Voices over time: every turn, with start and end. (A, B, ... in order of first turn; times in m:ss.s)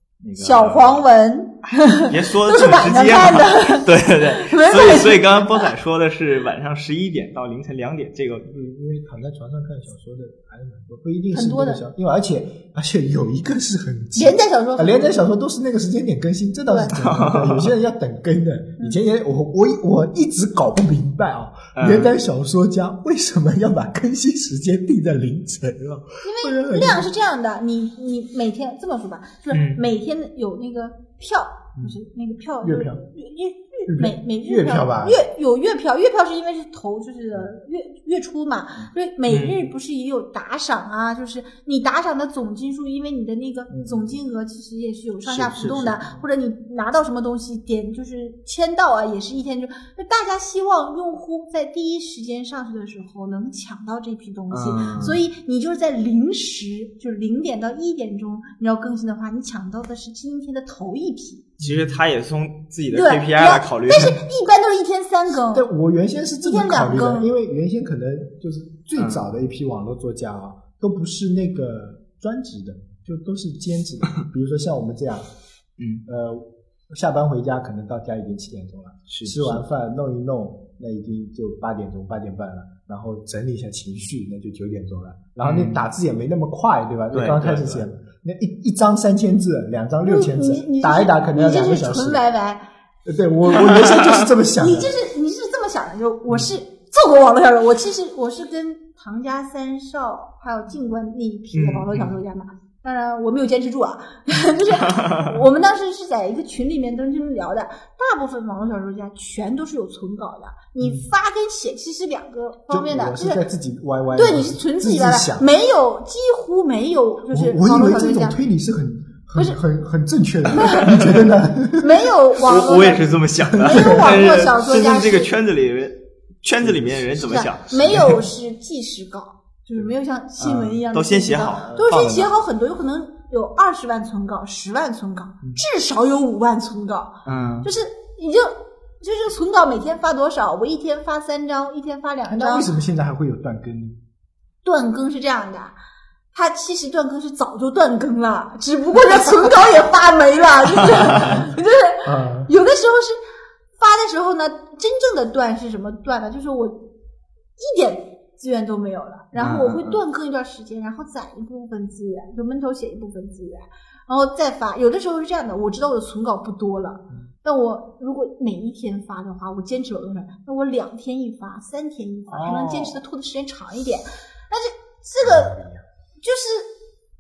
0:00.2-0:01.0 A
0:00.4-0:05.7 B
0:02.0-0:08.5 A
0:08.5-0:27.1 C
0:11.3-0:11.8 B
0:14.2-0:15.2 B
0:16.7-0:16.9 B
0:16.9-0:17.7 A
0:21.8-0:22.1 A
0:26.2-1:01.6 B
0:29.5-0:29.8 A
0:32.6-0:33.0 C
0:33.9-0:35.2 C
0:39.3-0:39.6 A
0:43.7-0:44.2 C
0:45.3-0:46.0 A
0:54.5-0:55.2 A
1:01.6-1:02.0 C
1:01.6-1:04.2 A
1:02.9-1:05.7 B
1:05.5-1:15.3 C
1:06.4-1:07.3 B
1:09.0-1:09.2 A
1:15.8-1:16.0 A
1:16.1-1:32.2 C
1:19.1-1:19.6 A
1:25.4-1:25.8 A
1:27.1-1:27.9 A
1:30.0-1:32.6 B
1:33.1-1:34.9 C
1:34.6-1:53.4 B
1:41.5-1:42.2 A
1:44.9-1:45.2 A
1:50.8-1:51.1 C
1:52.7-1:55.5 C
1:54.1-1:58.4 B
1:57.3-2:02.1 C
2:00.5-2:01.0 B
2:01.8-2:05.3 B
2:02.4-2:08.2 A
2:03.5-2:04.2 C
2:06.6-2:08.1 C
2:07.3-2:22.7 B
2:10.4-2:12.3 A
2:17.2-2:17.7 A
2:22.3-2:24.0 C
2:24.6-2:25.8 B
2:26.3-2:33.2 B
2:31.2-2:31.5 C
2:32.0-2:32.5 C
2:33.8-2:36.8 B
2:37.6-2:55.6 B
2:39.3-2:40.0 A
2:52.3-2:53.0 A
2:55.2-2:55.8 C
2:56.2-2:56.7 B